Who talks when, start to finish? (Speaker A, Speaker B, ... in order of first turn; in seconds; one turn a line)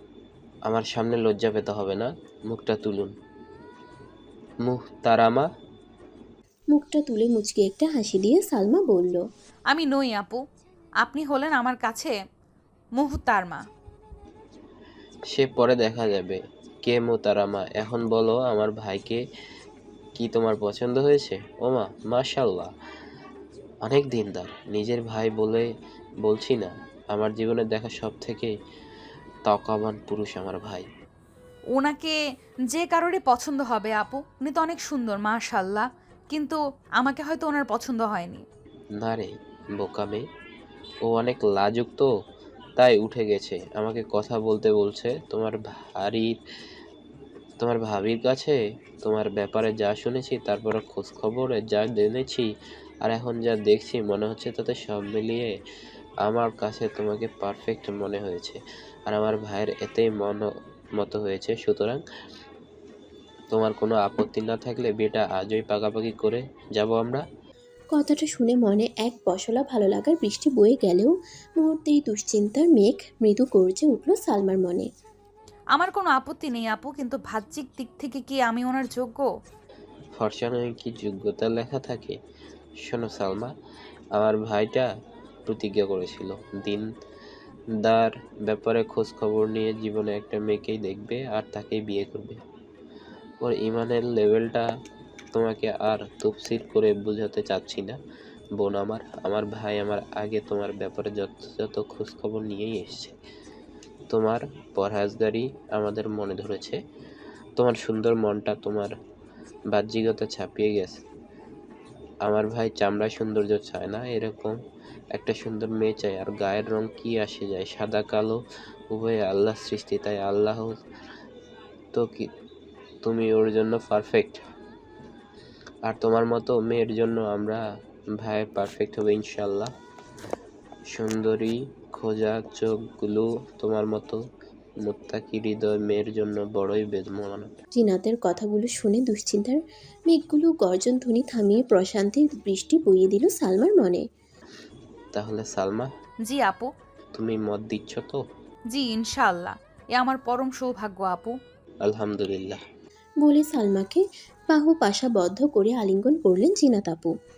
Speaker A: 0.7-3.1
Speaker A: 4.6-5.5
Speaker B: 6.7-9.2
Speaker C: 9.7-10.4
Speaker C: 11.0-12.1
Speaker C: 13.0-13.6
Speaker A: 15.3-19.2
Speaker A: 20.2-22.7
Speaker A: 23.9-25.7
Speaker A: 26.2-28.5
Speaker A: 29.5-30.9
Speaker C: 31.8-32.1
Speaker C: 32.7-38.5
Speaker A: 39.0-40.2
Speaker A: 41.1-42.1
Speaker A: 42.8-46.4
Speaker A: 47.6-52.5
Speaker A: 53.0-55.5
Speaker A: 56.2-62.0
Speaker A: 63.5-67.2
Speaker B: 67.9-74.9
Speaker C: 75.8-79.3
Speaker A: 80.1-82.1
Speaker A: 82.8-83.5
Speaker A: 84.2-84.9
Speaker A: 85.5-86.9
Speaker A: 87.8-92.4
Speaker A: 93.4-94.7
Speaker A: 95.3-98.0
Speaker A: 98.6-103.2
Speaker A: 104.1-106.8
Speaker A: 107.6-108.9
Speaker A: 109.7-111.0
Speaker A: 112.2-114.6
Speaker A: 115.1-118.4
Speaker A: 118.9-120.8
Speaker A: 121.9-122.3
Speaker A: 123.0-124.4
Speaker A: 125.9-127.6
Speaker A: 128.2-129.7
Speaker A: 130.9-134.2
Speaker A: 134.8-137.5
Speaker B: 137.8-144.0
Speaker A: 145.2-145.9
Speaker C: 146.3-146.7
Speaker A: 147.2-148.2
Speaker C: 148.7-151.3
Speaker A: 151.8-152.6
Speaker B: 153.2-157.1